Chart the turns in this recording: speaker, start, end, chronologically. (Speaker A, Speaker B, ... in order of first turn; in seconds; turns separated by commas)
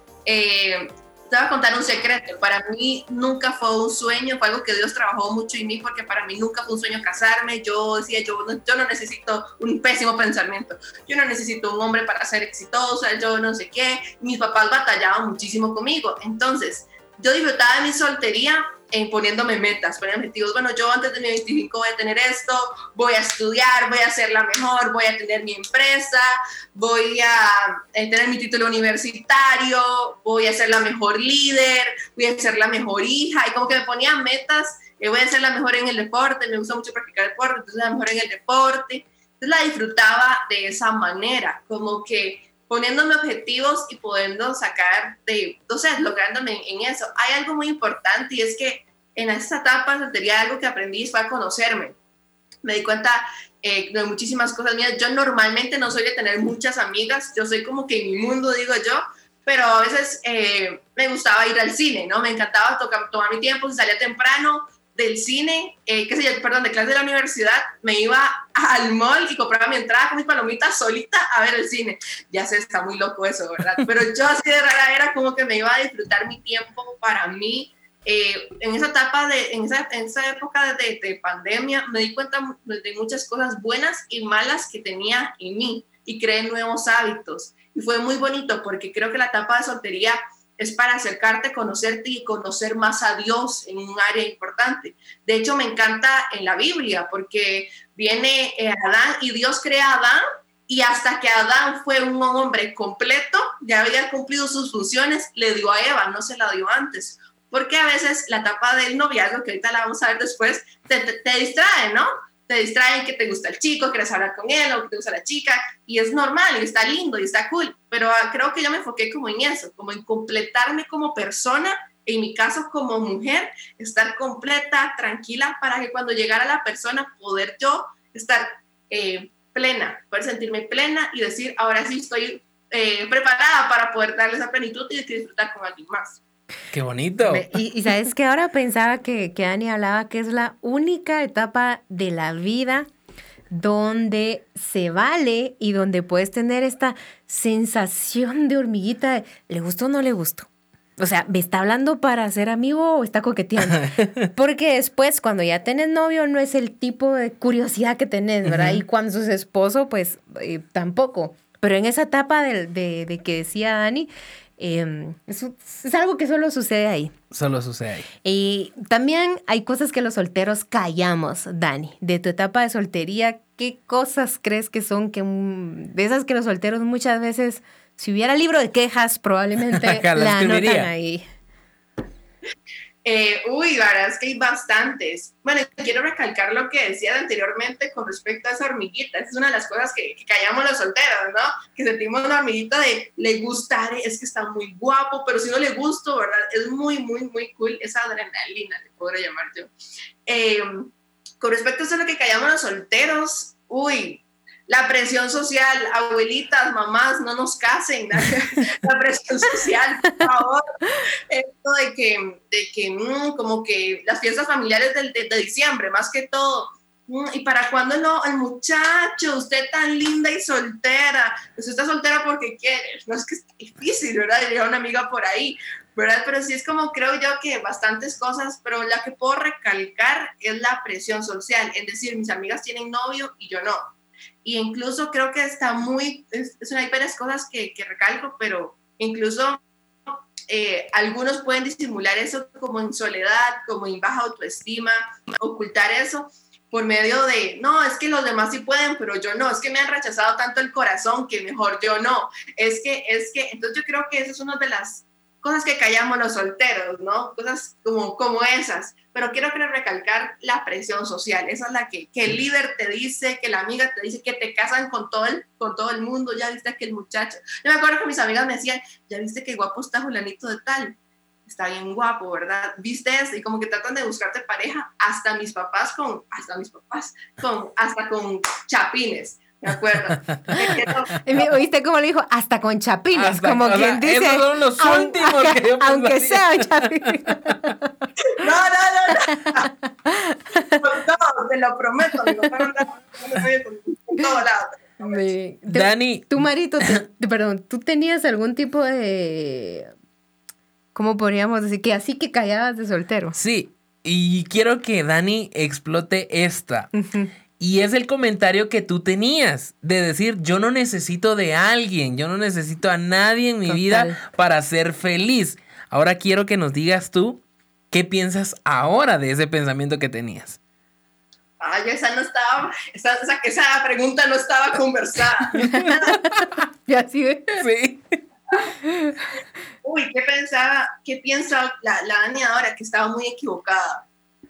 Speaker A: 0.2-52.0, Speaker A: 52.6-136.2, Speaker B: 136.7-137.5, Speaker C: 137.2-142.9, Speaker C: 143.5-167.1, Speaker B: 153.7-154.3, Speaker B: 158.5-158.8, Speaker B: 167.3-168.1, Speaker C: 168.2-181.2, Speaker B: 179.8-180.9, Speaker A: 183.0-199.7, Speaker A: 200.3-210.7, Speaker A: 211.3-233.9, Speaker A: 234.4-281.5, Speaker B: 280.3-280.6, Speaker C: 281.3-287.9, Speaker B: 283.1-287.2, Speaker A: 288.3-289.7, Speaker C: 289.3-290.8, Speaker A: 290.7-295.2, Speaker C: 292.2-292.5, Speaker C: 295.0-299.9, Speaker B: 295.7-297.0, Speaker C: 300.9-303.4, Speaker B: 303.4-306.9, Speaker C: 307.0-307.3, Speaker B: 307.6-320.6, Speaker C: 313.7-314.2, Speaker A: 321.6-325.7, Speaker C: 325.6-327.6, Speaker B: 327.6-328.2, Speaker C: 328.8-329.3, Speaker A: 329.8-334.1